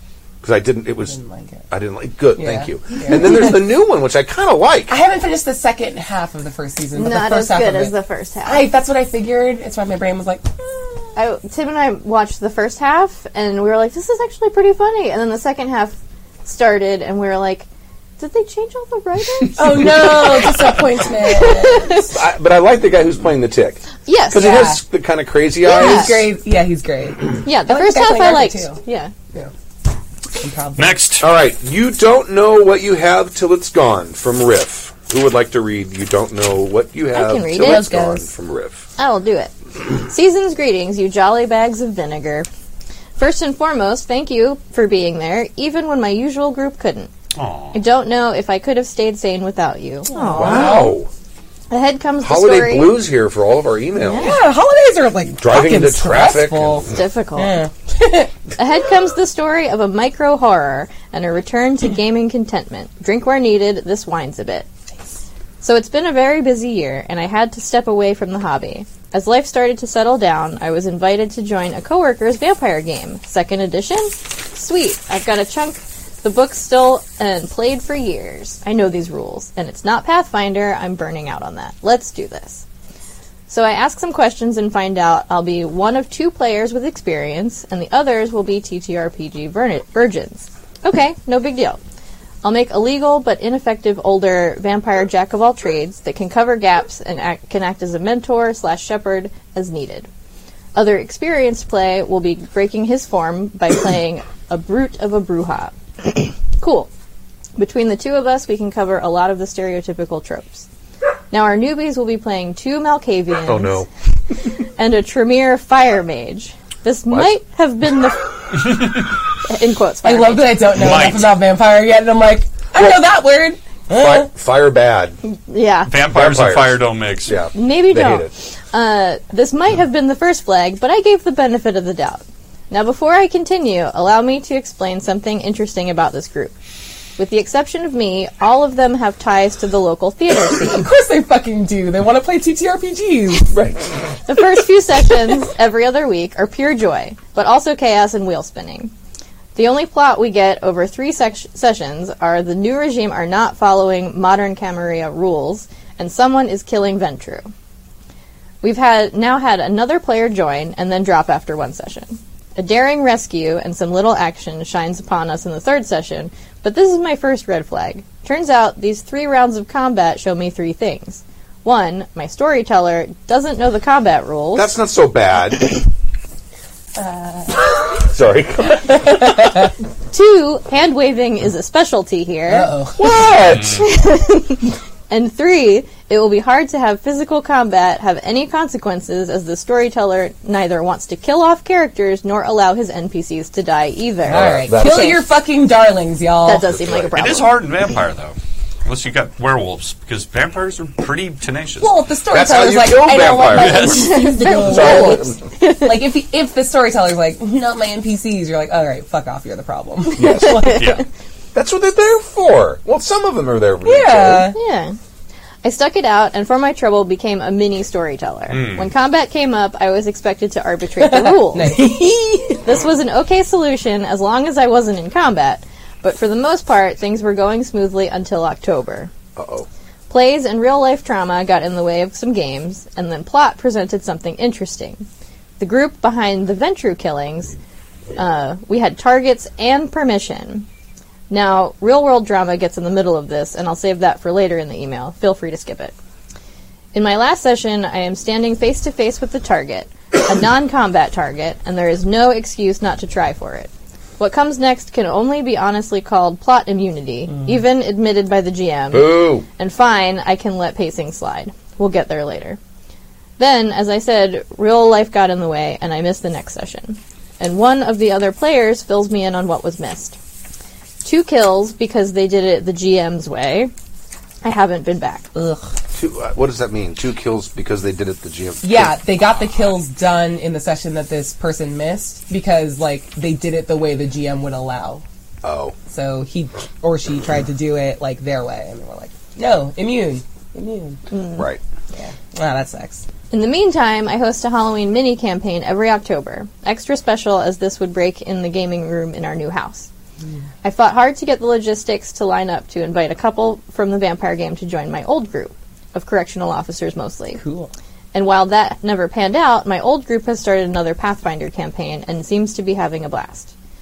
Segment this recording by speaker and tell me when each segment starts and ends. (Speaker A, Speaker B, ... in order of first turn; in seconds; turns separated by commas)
Speaker A: 0.4-1.2, Speaker B: 1.1-1.6, Speaker A: 1.7-5.0, Speaker B: 2.4-3.6, Speaker B: 4.9-7.9, Speaker C: 6.9-8.7, Speaker B: 8.4-11.1, Speaker C: 11.2-17.6, Speaker C: 18.2-20.6, Speaker B: 19.6-22.1, Speaker C: 21.3-22.1, Speaker A: 22.1-26.3, Speaker C: 24.1-24.8, Speaker B: 24.3-24.8, Speaker B: 25.6-28.8, Speaker C: 25.7-26.1, Speaker C: 27.4-29.1, Speaker B: 30.4-31.0, Speaker D: 30.8-31.2, Speaker A: 31.2-38.9, Speaker C: 37.1-38.2, Speaker B: 37.6-38.2, Speaker C: 39.0-42.5, Speaker C: 43.2-47.1, Speaker D: 47.4-47.8, Speaker C: 47.7-51.0, Speaker B: 50.1-50.9, Speaker A: 50.3-51.1, Speaker C: 51.7-53.0, Speaker A: 52.2-54.4, Speaker C: 54.0-54.3, Speaker B: 54.1-58.3, Speaker A: 55.4-57.0, Speaker C: 56.9-57.6, Speaker C: 58.6-64.7, Speaker C: 65.6-82.6, Speaker C: 83.5-91.8, Speaker C: 92.4-100.1, Speaker C: 100.7-106.9, Speaker C: 107.6-110.7, Speaker C: 111.3-113.8, Speaker A: 113.5-113.9, Speaker C: 114.8-118.8, Speaker C: 119.4-120.9, Speaker B: 120.0-124.3, Speaker D: 120.7-121.4, Speaker A: 122.8-123.0, Speaker A: 123.9-125.2, Speaker C: 125.3-125.9, Speaker D: 125.9-127.3, Speaker A: 126.1-128.3, Speaker C: 127.5-136.5, Speaker C: 137.2-140.8, Speaker B: 140.6-143.6, Speaker A: 143.5-143.8, Speaker C: 144.3-148.9, Speaker C: 149.5-157.5, Speaker C: 158.6-174.7, Speaker A: 174.5-175.9, Speaker B: 177.0-177.7, Speaker A: 177.9-179.4, Speaker C: 180.1-182.7, Speaker B: 182.5-183.1, Speaker A: 183.0-183.9, Speaker D: 183.5-183.8, Speaker C: 183.7-195.1, Speaker A: 194.3-195.2, Speaker B: 194.3-196.7, Speaker C: 196.4-197.5, Speaker A: 196.7-197.1, Speaker D: 197.2-202.0, Speaker B: 201.8-210.8, Speaker A: 202.3-205.4, Speaker D: 203.4-204.3, Speaker C: 203.9-205.9, Speaker A: 210.1-210.9, Speaker D: 210.7-211.0, Speaker A: 211.5-214.5, Speaker B: 213.8-214.6, Speaker C: 214.5-214.9, Speaker C: 215.6-229.1, Speaker D: 218.5-218.9, Speaker B: 221.0-222.5, Speaker A: 229.3-229.7, Speaker C: 230.1-235.1, Speaker C: 235.6-237.6, Speaker C: 238.1-240.7, Speaker C: 241.3-245.9, Speaker C: 246.9-262.6, Speaker A: 258.9-259.4, Speaker C: 263.4-270.2, Speaker C: 271.0-273.7, Speaker C: 274.4-275.3, Speaker B: 275.3-275.6, Speaker A: 275.9-279.0, Speaker B: 278.6-285.0, Speaker A: 285.4-285.8, Speaker B: 285.9-291.0, Speaker C: 291.1-291.5, Speaker B: 291.9-293.0, Speaker C: 293.3-299.9, Speaker C: 300.6-307.4, Speaker B: 307.4-307.7, Speaker C: 308.1-313.5